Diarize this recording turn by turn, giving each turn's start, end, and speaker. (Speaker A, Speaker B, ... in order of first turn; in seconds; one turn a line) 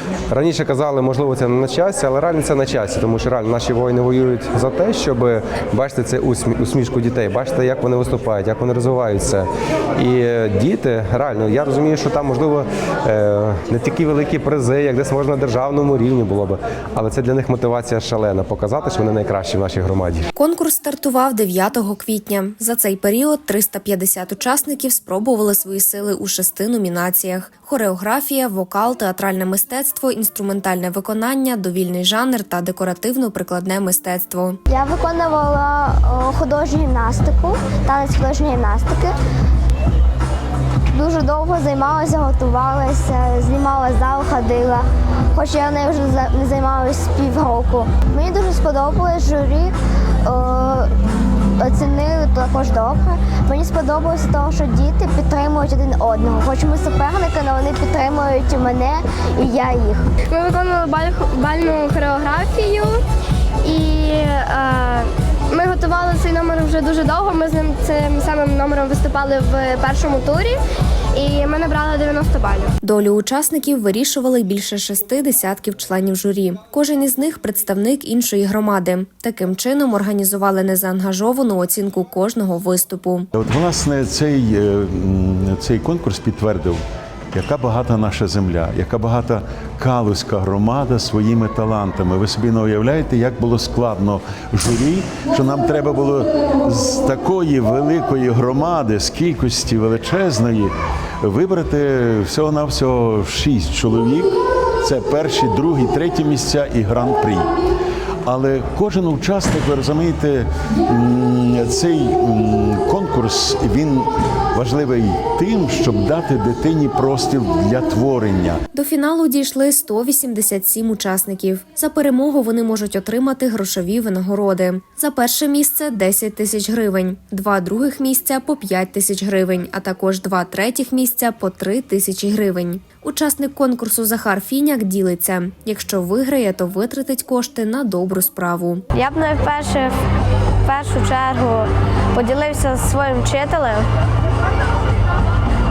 Speaker A: 0.3-20.3
Speaker B: 20.3-34.6
Speaker C: 34.7-39.1
Speaker C: 40.9-49.7
Speaker C: 50.2-50.9
Speaker C: 51.6-60.1
Speaker D: 60.3-63.0
Speaker D: 63.6-70.6
Speaker D: 71.1-72.7
Speaker B: 72.8-83.3
Speaker E: 83.3-86.8
Speaker E: 87.3-107.5
Speaker E: 108.2-118.6
Speaker B: 118.7-138.8
Speaker F: 138.9-139.9
Speaker F: 140.6-143.8